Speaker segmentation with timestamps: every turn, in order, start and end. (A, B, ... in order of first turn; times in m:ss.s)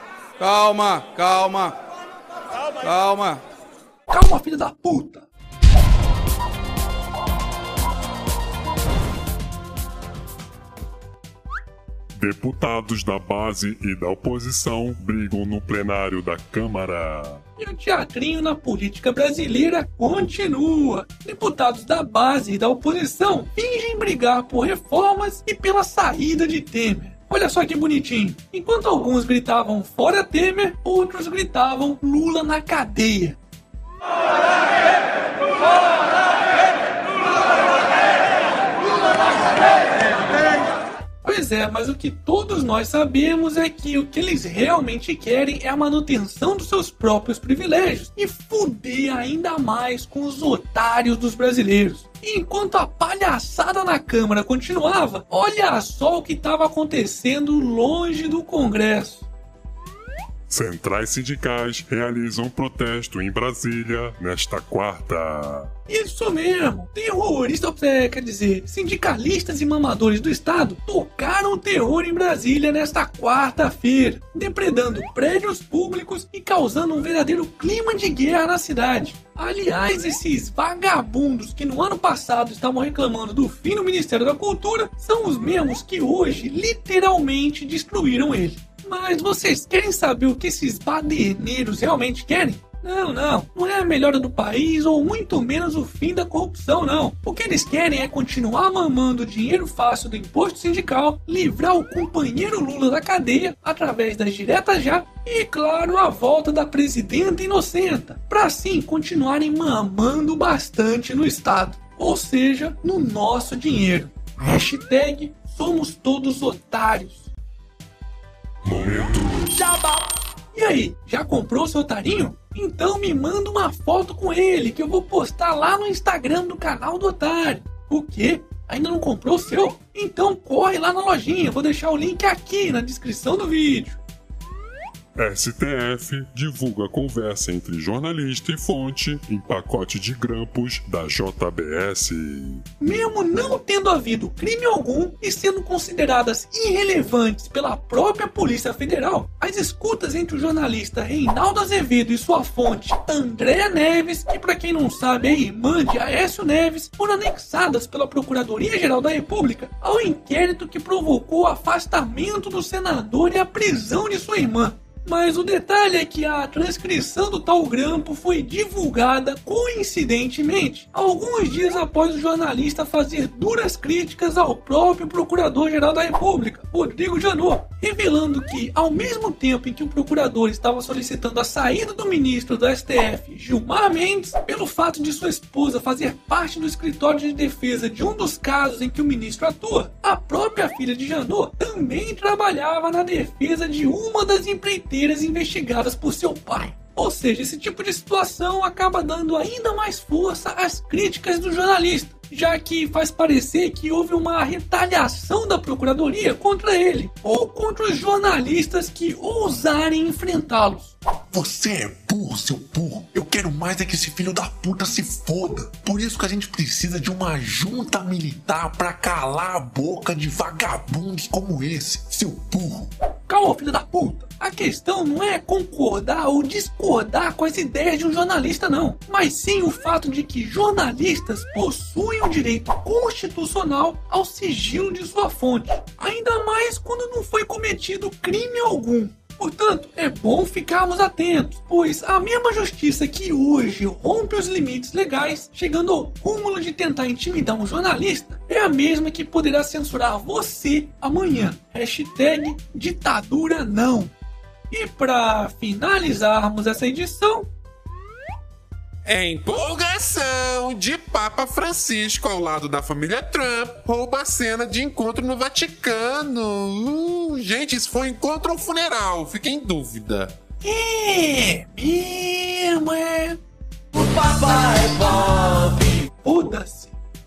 0:00.4-0:01.8 A
0:02.8-0:03.4 A
0:04.1-0:05.3 B
0:12.1-0:17.4 C
0:17.6-0:33.4 B
0:41.2-0:59.3 B
1:00.5-1:05.7 C
1:05.9-1:57.3 B
1:58.6-1:59.5 C
1:59.6-2:00.0 B
2:00.5-2:14.0 B
2:15.2-2:22.6 C
2:22.8-3:30.9 B
3:31.3-3:42.9 D
3:43.3-4:14.1 B
4:14.7-4:17.5 B
4:19.1-4:30.4 E
4:30.6-4:33.4 B
4:34.0-4:37.0 B